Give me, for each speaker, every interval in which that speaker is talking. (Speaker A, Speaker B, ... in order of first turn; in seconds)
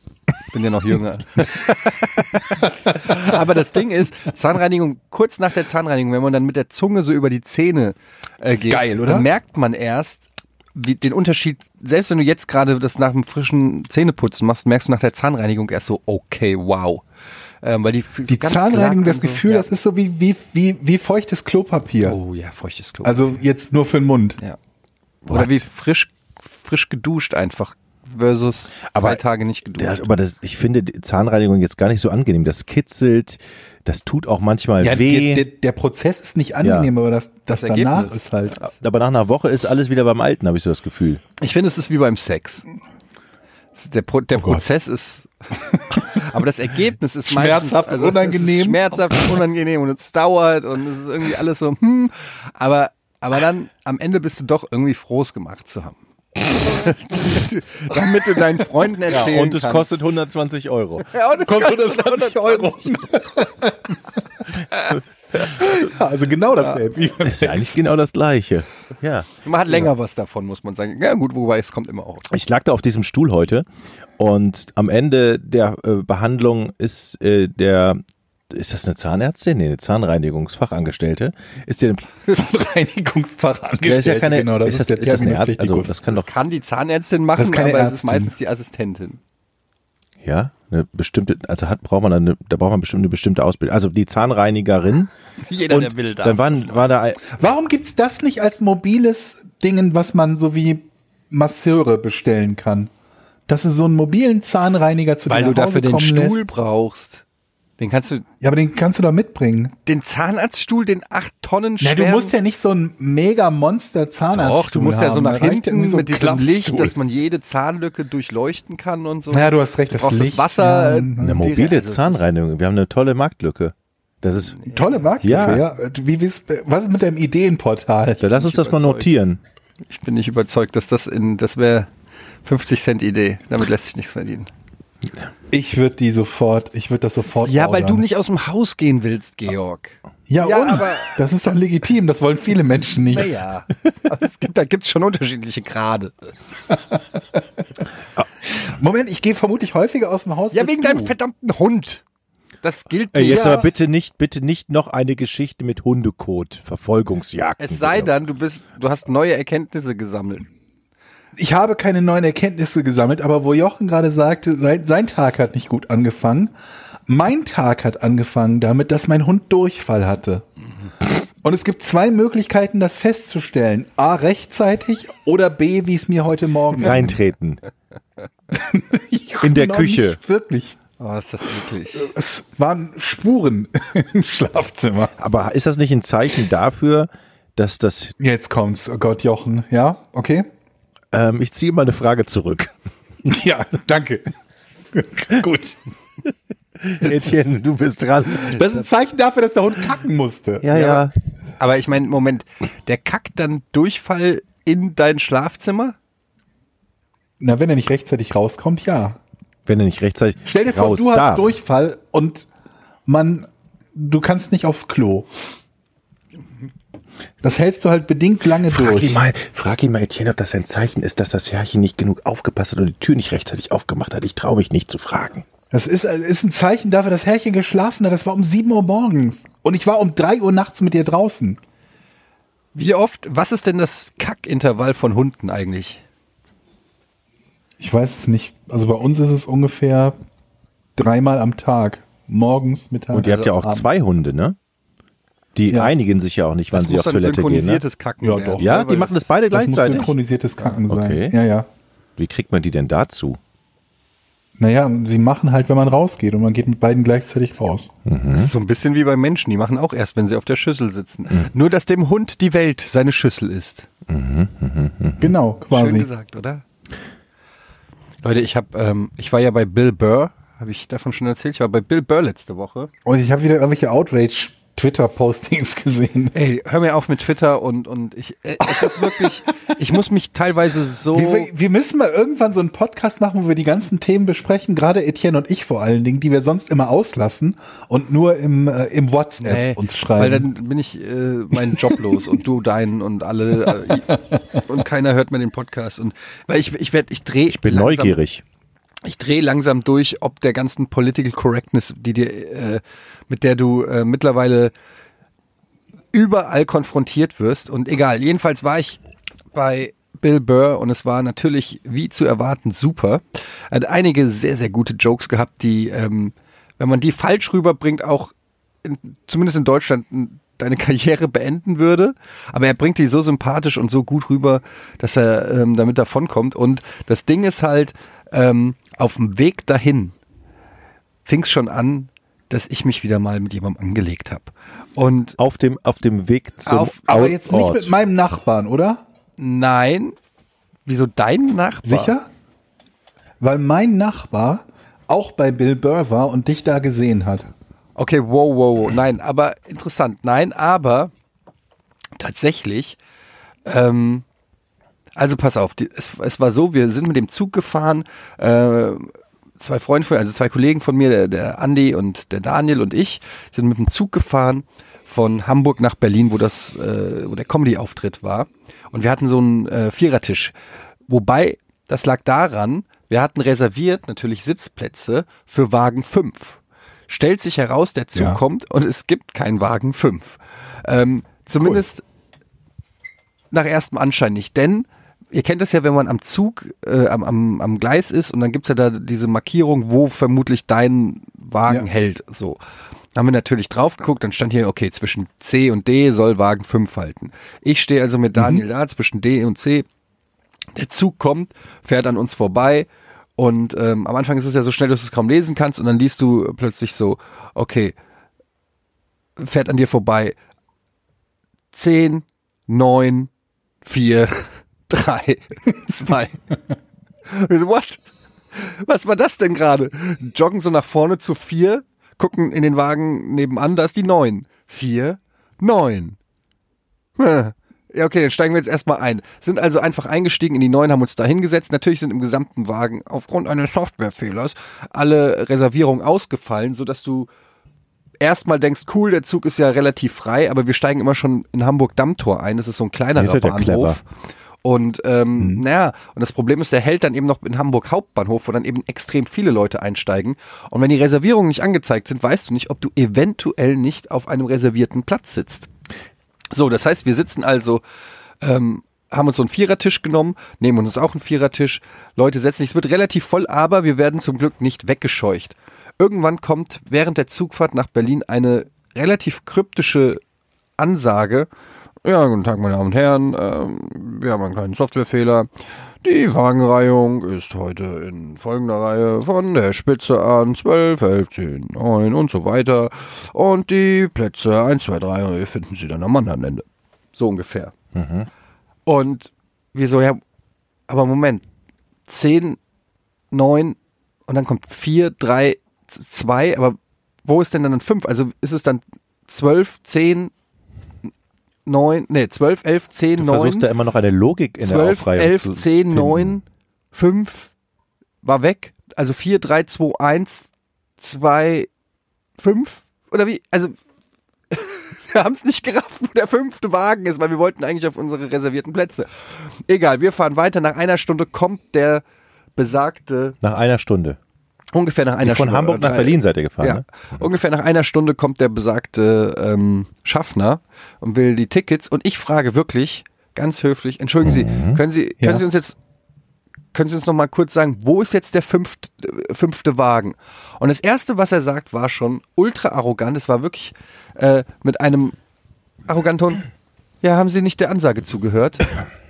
Speaker A: 0.5-17.0, 17.6-19.7, 22.0-23.3, 25.2-30.1, 37.5-38.6, 41.4-42.6, 43.8-60.1, 61.0-63.0, 69.4-72.3, 86.1-89.2, 95.5-96.9, 105.3-107.2, 107.8-108.2, 109.8-112.3, 114.3-122.2, 128.3-129.1, 129.9-131.9, 132.4-134.5, 137.4-141.2, 143.1-146.3, 150.5-152.0, 152.6-153.6, 157.6-160.5, 181.0-182.1, 200.7-201.1, 201.6-206.0, 232.7-236.0, 246.7-249.3, 258.3-263.9, 265.7-266.6, 268.2-272.9, 276.3-281.5, 289.4-298.1, 299.0-304.7, 306.1-309.0, 309.5-318.3, 318.8-330.1, 331.2-335.4, 336.6-337.3, 339.4-340.1, 340.9-342.1, 348.0-351.1, 352.2-353.0, 353.6-354.2, 355.1-370.5, 371.1-376.6, 377.1-382.0, 383.5-392.6, 393.1-399.9, 400.8-402.9, 403.4-408.0, 409.4-410.4, 411.7-413.3, 413.8-416.4, 417.3-426.2, 427.2-437.3, 438.2-444.0, 444.6-455.7, 456.5-457.8, 458.4-470.2, 470.8-471.5, 472.0-475.5, 476.0-486.6, 487.2-487.7, 488.9-490.2, 490.9-491.4, 492.1-492.6, 493.3-493.8, 494.3-500.3, 501.7-503.7, 504.6-507.5, 508.2-510.5, 511.0-511.7, 512.4-513.8, 514.5-519.1, 519.7-522.0, 522.6-523.4, 524.7-535.8, 536.7-545.2, 545.9-546.5, 547.0-548.8
Speaker B: 8.6-9.3, 18.3-22.2, 23.0-24.4, 34.8-38.6, 47.3-49.3, 61.4-64.2, 65.3-67.8, 82.3-86.0, 87.3-88.3, 97.3-102.9, 103.5-106.5, 108.4-109.7, 111.8-117.0, 119.3-121.4, 124.7-128.3, 135.5-138.0, 140.3-143.3, 146.7-147.2, 148.6-151.1, 153.3-153.7, 161.3-166.5, 167.1-170.5, 171.4-177.2, 178.5-180.8, 181.9-185.2, 188.2-190.5, 193.2-194.2, 194.9-195.8, 198.3-200.7, 207.4-209.2, 210.5-212.5, 213.1-215.3, 217.4-219.2, 225.7-231.6, 237.8-240.2, 241.0-243.8, 248.2-248.7, 249.5-251.7, 254.6-257.9, 265.2-266.1, 273.0-276.4, 278.6-279.4, 281.1-290.5, 291.5-292.1, 293.7-294.6, 337.1-339.0, 341.8-342.3, 343.4-347.5, 378.1-378.4, 398.4-398.6, 445.4-445.6, 535.2-535.5
Speaker C: 25.3-25.6, 28.9-29.2, 29.8-35.5, 36.6-36.9, 38.6-41.2, 59.1-61.1, 67.2-69.3, 72.3-73.7, 74.2-82.2, 83.8-86.3, 90.2-95.1, 95.7-97.2, 121.2-124.7, 125.2-125.7, 128.2-129.4, 153.1-158.1, 176.8-177.6, 179.4-180.2, 185.2-188.2, 191.1-192.7, 196.8-198.7, 200.6-201.1, 209.7-211.5, 218.7-225.5, 243.1-244.6, 245.5-247.8, 248.6-250.1, 250.9-251.4, 252.2-253.4, 258.1-258.5, 264.1-265.3, 297.5-298.4, 335.4-337.9, 443.1-444.0, 487.9-488.3, 503.2-506.4, 523.4-524.2, 525.2-527.2, 534.2-534.8